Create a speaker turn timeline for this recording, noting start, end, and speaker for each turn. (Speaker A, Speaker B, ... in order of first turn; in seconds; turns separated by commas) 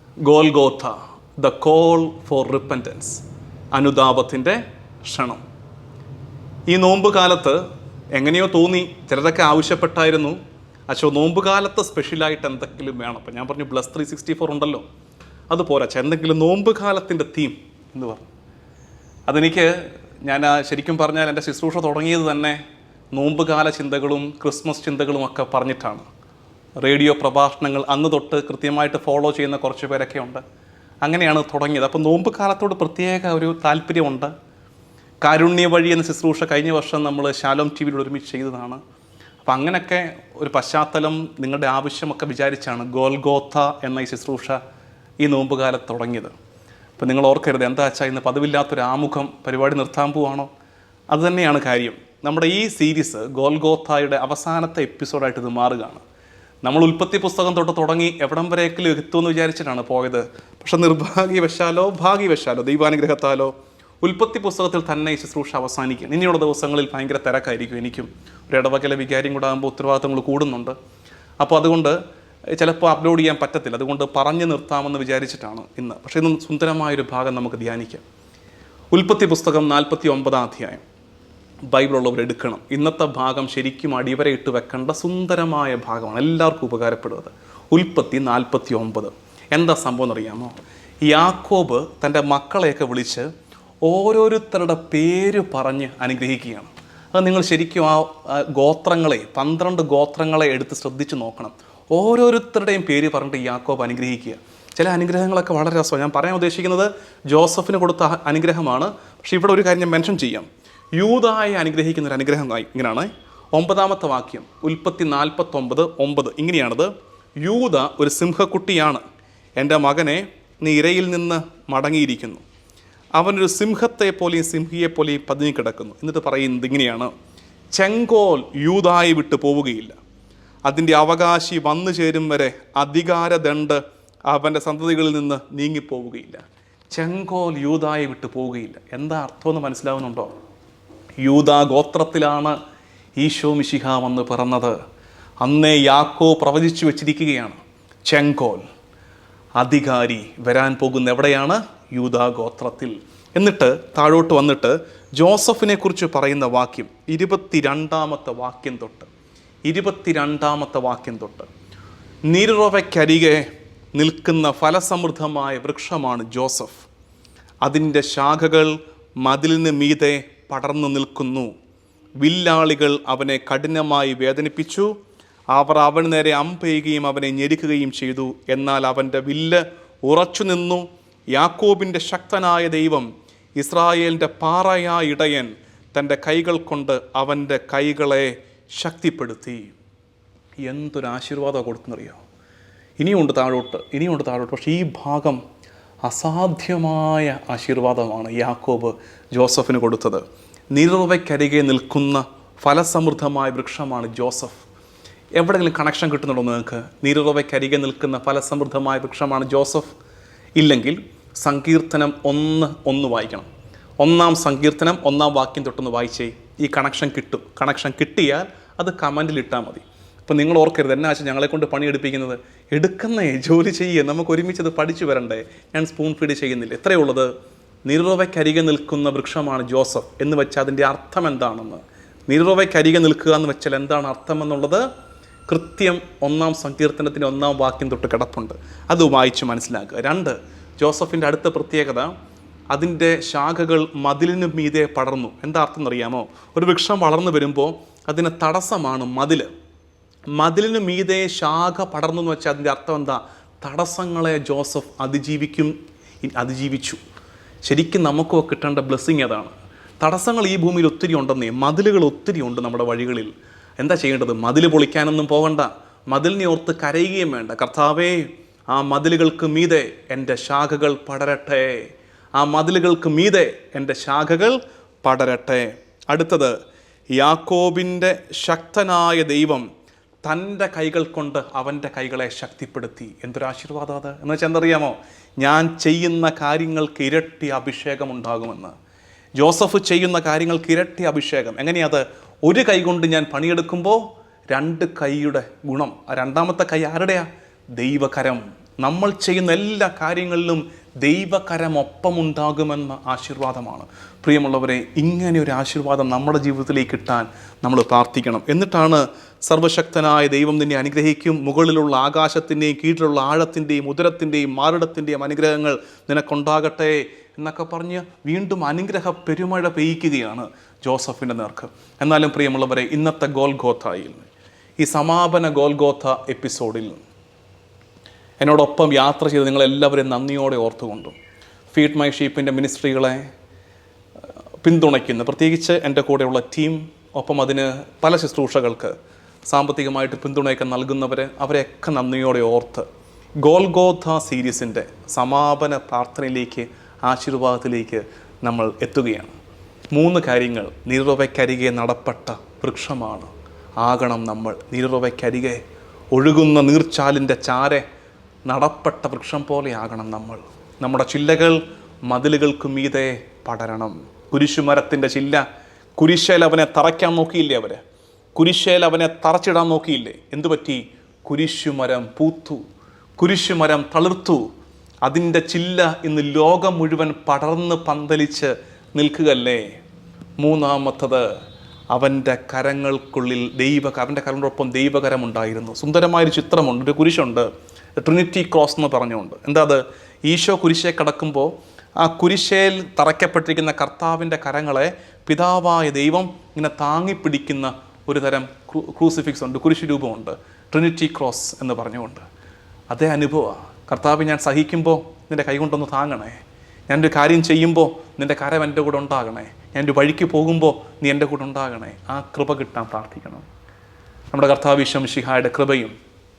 Speaker A: 0.2-5.4, Speaker A: 6.7-7.6, Speaker A: 8.1-10.4, Speaker A: 10.9-14.8, Speaker A: 15.5-18.3, Speaker A: 19.3-22.6, Speaker A: 23.1-26.1, Speaker A: 26.8-30.4, Speaker A: 31.0-34.3, Speaker A: 35.2-38.8, Speaker A: 39.4-44.6, Speaker A: 45.2-46.3, Speaker A: 47.0-50.5, Speaker A: 51.1-56.0, Speaker A: 56.6-70.8, Speaker A: 71.4-72.0, Speaker A: 72.6-78.0, Speaker A: 78.9-80.8, Speaker A: 81.7-90.5, Speaker A: 91.1-93.3, Speaker A: 93.8-116.9, Speaker A: 117.4-119.0, Speaker A: 119.6-122.4, Speaker A: 123.2-127.1, Speaker A: 127.7-130.0, Speaker A: 130.7-140.3, Speaker A: 141.2-142.6, Speaker A: 143.2-144.8, Speaker A: 145.4-148.6, Speaker A: 149.6-159.1, Speaker A: 159.7-161.5, Speaker A: 162.3-166.9, Speaker A: 167.6-171.5, Speaker A: 172.2-174.9, Speaker A: 175.5-189.8, Speaker A: 190.6-192.2, Speaker A: 193.0-195.4, Speaker A: 196.1-200.2, Speaker A: 200.7-204.6, Speaker A: 205.4-209.9, Speaker A: 210.6-213.5, Speaker A: 214.0-227.3, Speaker A: 227.9-234.9, Speaker A: 235.5-242.1, Speaker A: 242.7-249.5, Speaker A: 250.3-257.0, Speaker A: 257.6-276.6, Speaker A: 277.1-279.6, Speaker A: 280.2-288.8, Speaker A: 289.4-324.3, Speaker A: 324.8-327.0, Speaker A: 328.4-331.1, Speaker A: 331.7-333.2, Speaker A: 334.6-339.0, Speaker A: 339.5-342.9, Speaker A: 343.4-349.3, Speaker A: 349.9-353.3, Speaker A: 353.8-355.6, Speaker A: 356.1-357.9, Speaker A: 358.5-365.4, Speaker A: 366.0-367.8, Speaker A: 368.4-372.6, Speaker A: 373.2-374.5, Speaker A: 375.1-379.7, Speaker A: 380.4-381.3, Speaker A: 381.9-387.5, Speaker A: 388.0-402.2, Speaker A: 402.9-406.4, Speaker A: 406.9-413.4, Speaker A: 414.3-415.9